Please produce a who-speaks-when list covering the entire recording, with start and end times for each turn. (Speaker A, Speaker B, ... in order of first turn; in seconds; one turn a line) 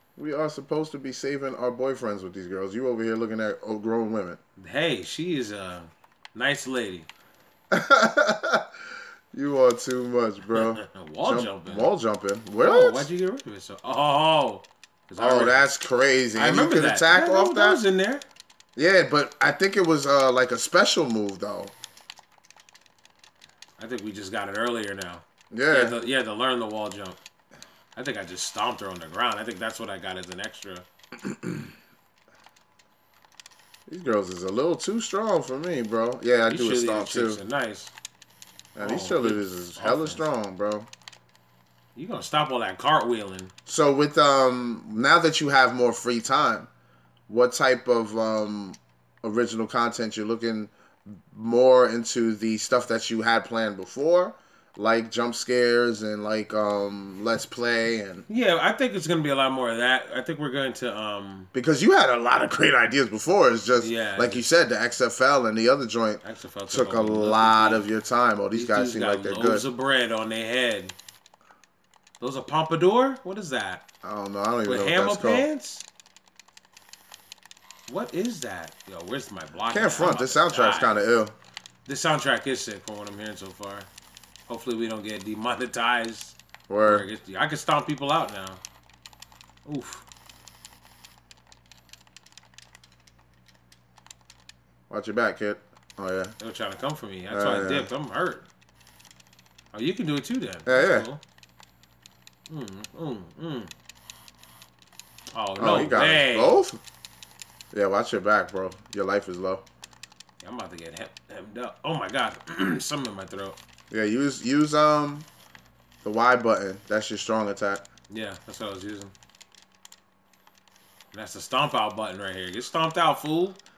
Speaker A: 0.2-4.4
Speaker B: 4.6-7.1
Speaker A: 7.7-8.7
Speaker A: 9.3-13.1
Speaker B: 10.5-11.9
Speaker B: 12.6-15.7
Speaker A: 15.2-17.8
Speaker B: 16.3-18.2
Speaker A: 18.8-21.7
Speaker B: 23.8-27.2
Speaker A: 25.5-25.9
Speaker B: 27.9-30.9
Speaker A: 33.9-37.4
Speaker B: 36.5-37.9
Speaker A: 38.8-40.9
Speaker B: 38.8-40.2
Speaker B: 41.9-43.5
Speaker A: 43.7-46.7
Speaker A: 47.3-58.2
Speaker B: 58.3-61.5
Speaker A: 61.5-69.7
Speaker B: 63.8-64.4
Speaker B: 66.2-67.9
Speaker B: 68.5-70.9
Speaker B: 72.2-73.8
Speaker A: 74.0-75.4
Speaker B: 74.7-75.8
Speaker B: 77.9-80.9
Speaker A: 79.7-81.3
Speaker B: 81.8-83.9
Speaker B: 84.5-88.6
Speaker A: 86.7-87.0
Speaker B: 89.6-90.0
Speaker A: 94.9-96.3
Speaker B: 96.4-98.5
Speaker A: 97.3-97.9
Speaker B: 99.7-101.2
Speaker A: 100.7-101.1
Speaker B: 102.5-103.7
Speaker B: 105.3-106.6
Speaker A: 105.6-106.8
Speaker A: 107.7-109.6
Speaker B: 110.4-113.6
Speaker A: 113.9-115.3
Speaker A: 116.0-117.8
Speaker B: 118.1-119.1
Speaker B: 121.1-123.6